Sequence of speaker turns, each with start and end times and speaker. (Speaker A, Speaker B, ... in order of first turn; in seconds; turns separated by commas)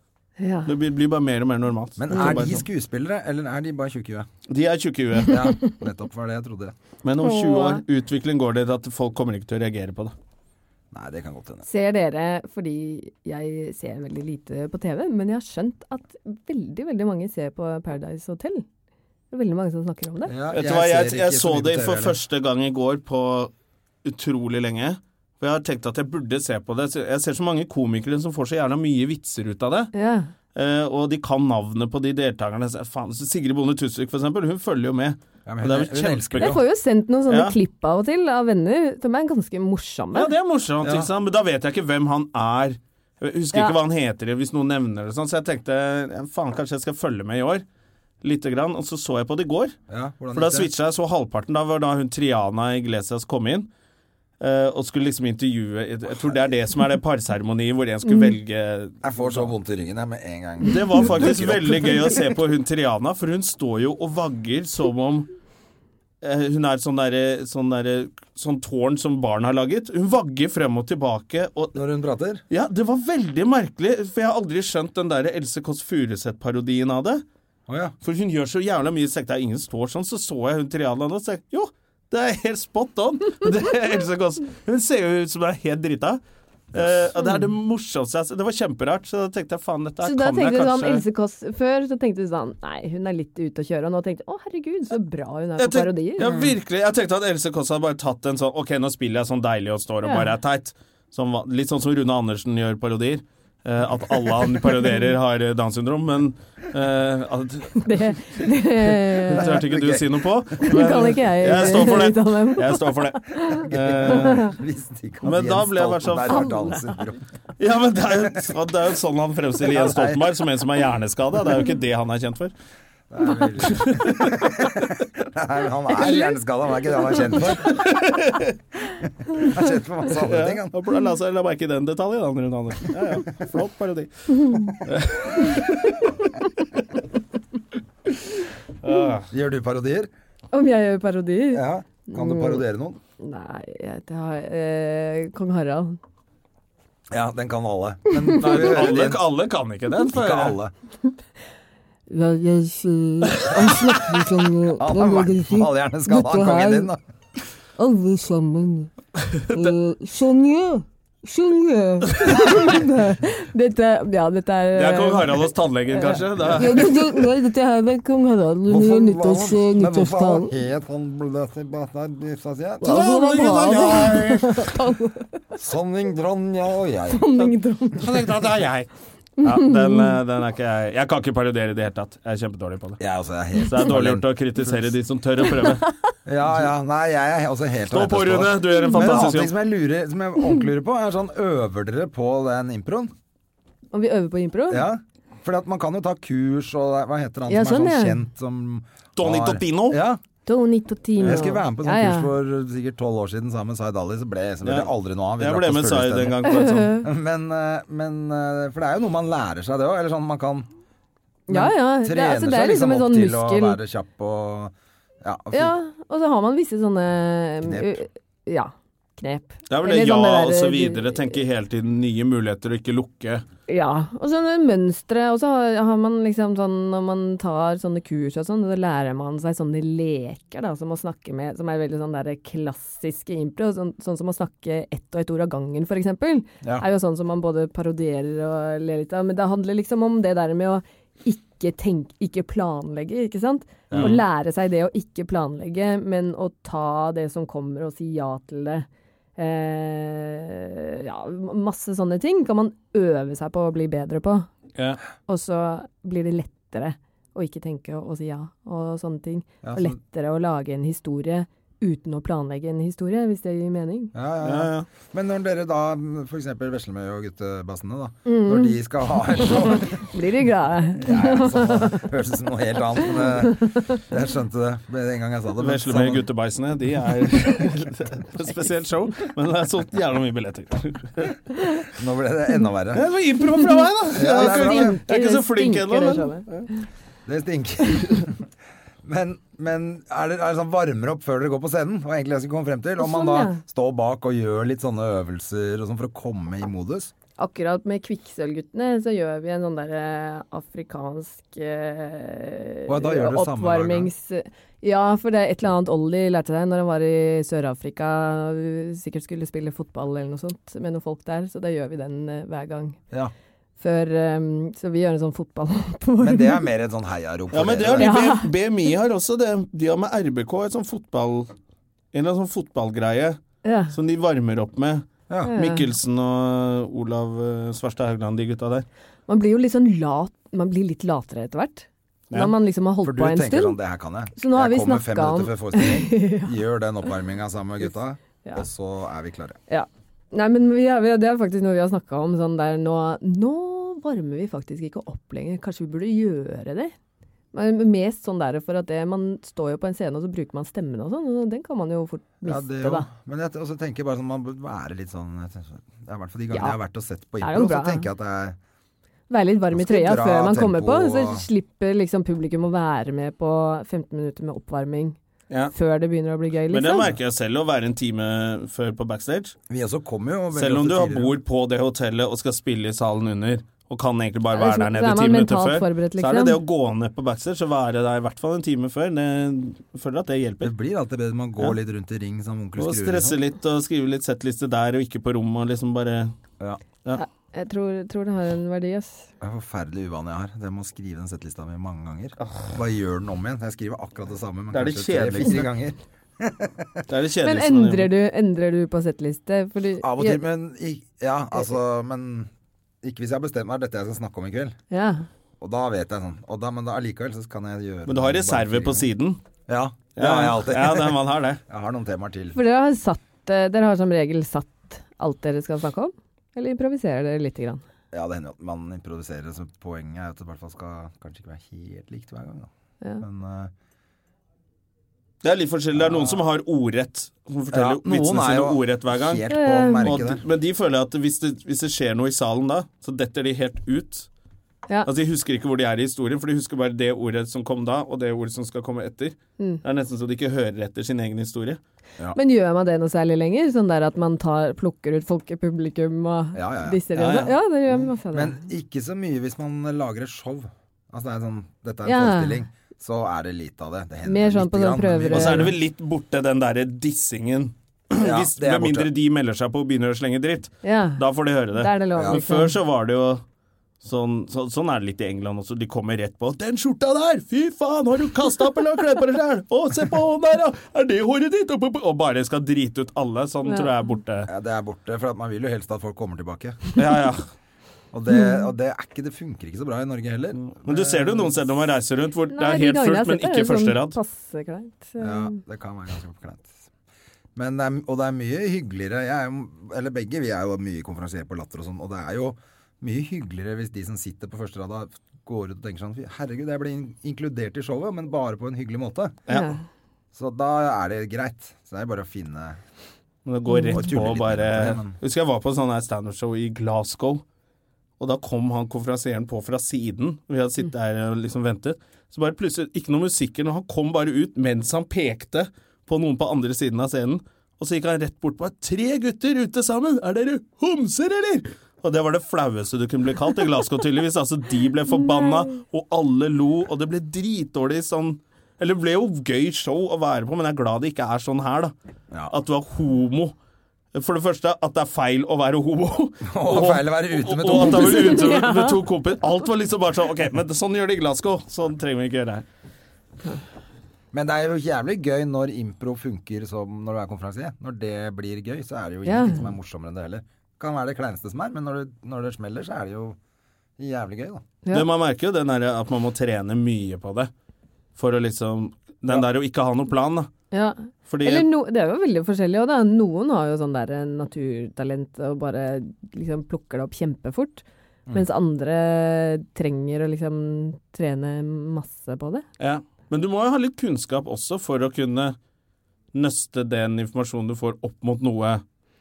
Speaker A: 0.4-0.7, Speaker B: 0.7-2.6, Speaker C: 2.0-4.3, Speaker A: 2.1-2.4, Speaker B: 4.5-5.6, Speaker C: 5.2-6.8, Speaker B: 7.0-10.1, Speaker A: 7.2-7.8, Speaker C: 10.9-11.7, Speaker A: 11.6-18.6, Speaker A: 19.3-20.3, Speaker C: 20.3-22.2, Speaker B: 20.5-23.5, Speaker B: 24.0-29.9, Speaker A: 29.9-30.3, Speaker B: 30.6-36.6, Speaker C: 35.5-36.6, Speaker A: 36.4-40.3, Speaker B: 37.3-37.6, Speaker B: 40.1-47.6, Speaker C: 40.8-41.1, Speaker B: 48.2-49.8, Speaker C: 49.9-50.7, Speaker B: 50.3-53.7, Speaker B: 54.4-59.5, Speaker A: 58.1-58.3, Speaker C: 59.0-62.2, Speaker B: 60.7-65.3, Speaker B: 66.2-71.8, Speaker C: 71.8-72.4, Speaker B: 72.5-77.2, Speaker C: 77.7-78.0, Speaker B: 78.0-86.2, Speaker B: 86.7-91.0, Speaker A: 90.0-96.4, Speaker B: 95.6-114.5, Speaker A: 100.0-100.3, Speaker A: 107.8-109.6, Speaker C: 109.3-110.2, Speaker A: 110.7-114.5, Speaker C: 113.7-117.2, Speaker B: 115.2-116.8, Speaker A: 116.3-116.7, Speaker B: 117.6-122.5, Speaker C: 119.6-120.3, Speaker C: 123.1-127.8, Speaker B: 123.6-124.5, Speaker A: 126.0-126.3, Speaker A: 126.9-127.3, Speaker B: 127.4-128.6, Speaker C: 129.4-130.7, Speaker B: 130.1-136.0, Speaker B: 138.8-139.3, Speaker C: 139.3-140.1, Speaker A: 140.5-142.7, Speaker C: 141.5-143.0, Speaker A: 143.2-146.0, Speaker C: 147.1-149.2, Speaker B: 148.4-150.6, Speaker C: 150.1-150.7, Speaker A: 152.1-156.9, Speaker B: 153.4-153.9, Speaker C: 154.7-157.0, Speaker A: 157.8-158.9, Speaker B: 159.3-159.7, Speaker A: 159.5-170.5, Speaker B: 162.1-162.5, Speaker B: 164.8-167.1, Speaker C: 168.7-173.2, Speaker A: 172.8-175.3, Speaker B: 172.8-174.7, Speaker C: 175.6-177.3, Speaker A: 177.1-178.1, Speaker B: 178.0-178.9, Speaker A: 179.4-180.1, Speaker B: 179.4-183.0, Speaker C: 183.0-184.9, Speaker B: 183.7-185.9, Speaker C: 186.2-193.1, Speaker B: 187.9-189.5, Speaker A: 193.9-194.9, Speaker C: 194.7-200.2, Speaker A: 197.5-198.2, Speaker B: 199.2-200.0, Speaker A: 200.5-202.3, Speaker C: 201.2-210.7, Speaker B: 204.6-207.0, Speaker A: 206.5-207.0, Speaker C: 211.5-215.8, Speaker A: 211.5-213.8, Speaker A: 215.5-221.4, Speaker C: 217.6-218.1, Speaker B: 219.7-223.4, Speaker A: 223.7-254.5, Speaker C: 243.9-244.2, Speaker B: 243.9-244.2, Speaker A: 255.3-264.1, Speaker C: 259.6-260.0, Speaker C: 264.1-270.1, Speaker B: 264.4-264.9, Speaker A: 268.3-268.8, Speaker A: 269.4-272.1, Speaker C: 271.0-276.3, Speaker A: 273.2-274.0, Speaker B: 275.6-281.4, Speaker C: 281.9-283.1, Speaker B: 282.9-286.7, Speaker C: 284.1-285.0, Speaker A: 284.2-286.5, Speaker C: 287.3-288.5, Speaker C: 289.0-297.1, Speaker A: 293.0-293.6, Speaker A: 297.4-313.0, Speaker C: 302.9-304.1, Speaker A: 313.8-316.7, Speaker C: 316.2-318.2, Speaker B: 317.5-321.5, Speaker A: 318.0-318.5, Speaker B: 322.1-323.4, Speaker A: 323.6-323.9, Speaker B: 323.9-328.9, Speaker C: 325.3-325.5, Speaker A: 325.5-325.9, Speaker A: 329.3-333.8, Speaker C: 333.0-339.6, Speaker A: 334.4-336.5, Speaker A: 339.7-346.9, Speaker A: 347.5-353.1, Speaker C: 352.4-358.6, Speaker A: 357.4-358.1, Speaker A: 359.3-365.2, Speaker C: 359.7-361.5, Speaker A: 365.7-367.1, Speaker B: 366.7-369.6, Speaker C: 369.7-371.4, Speaker B: 370.5-380.7, Speaker A: 374.5-376.6, Speaker C: 380.6-383.4, Speaker B: 382.8-386.3, Speaker A: 387.2-389.3, Speaker C: 389.4-397.0, Speaker B: 392.4-392.8, Speaker B: 394.7-395.7, Speaker B: 397.1-398.1, Speaker A: 397.4-400.4, Speaker C: 400.0-402.5, Speaker C: 403.0-404.8, Speaker A: 404.9-405.3, Speaker C: 405.6-409.1, Speaker B: 408.1-409.4, Speaker C: 409.7-412.6, Speaker B: 410.2-411.6, Speaker A: 412.5-417.8, Speaker C: 418.1-423.7, Speaker B: 425.4-429.4, Speaker C: 425.9-426.4, Speaker C: 427.7-430.4, Speaker A: 429.5-430.1, Speaker B: 430.0-434.3, Speaker B: 435.1-441.8, Speaker A: 442.3-448.7, Speaker C: 446.5-447.0, Speaker B: 447.2-447.5, Speaker C: 448.2-455.8, Speaker A: 452.0-452.7, Speaker A: 454.2-455.7, Speaker B: 455.3-463.4, Speaker C: 458.2-459.1, Speaker A: 460.8-461.2, Speaker A: 461.7-462.8, Speaker B: 464.0-474.5, Speaker C: 474.5-476.8, Speaker B: 476.9-477.4, Speaker C: 478.1-481.6, Speaker B: 480.6-484.2, Speaker A: 482.5-485.6, Speaker C: 485.2-486.9, Speaker C: 487.6-499.4, Speaker B: 499.5-499.7, Speaker A: 499.5-499.8, Speaker C: 500.3-502.8, Speaker B: 503.5-507.4, Speaker A: 503.7-504.1, Speaker C: 503.9-505.1, Speaker B: 508.2-531.9, Speaker B: 532.5-533.5, Speaker B: 534.1-542.6, Speaker C: 536.4-538.6, Speaker A: 537.8-539.0, Speaker C: 544.3-553.4, Speaker A: 549.2-549.6, Speaker C: 554.0-554.6, Speaker B: 554.9-557.5, Speaker B: 558.2-560.5, Speaker A: 560.7-572.7, Speaker B: 561.3-561.7, Speaker B: 572.8-575.6, Speaker B: 576.3-578.8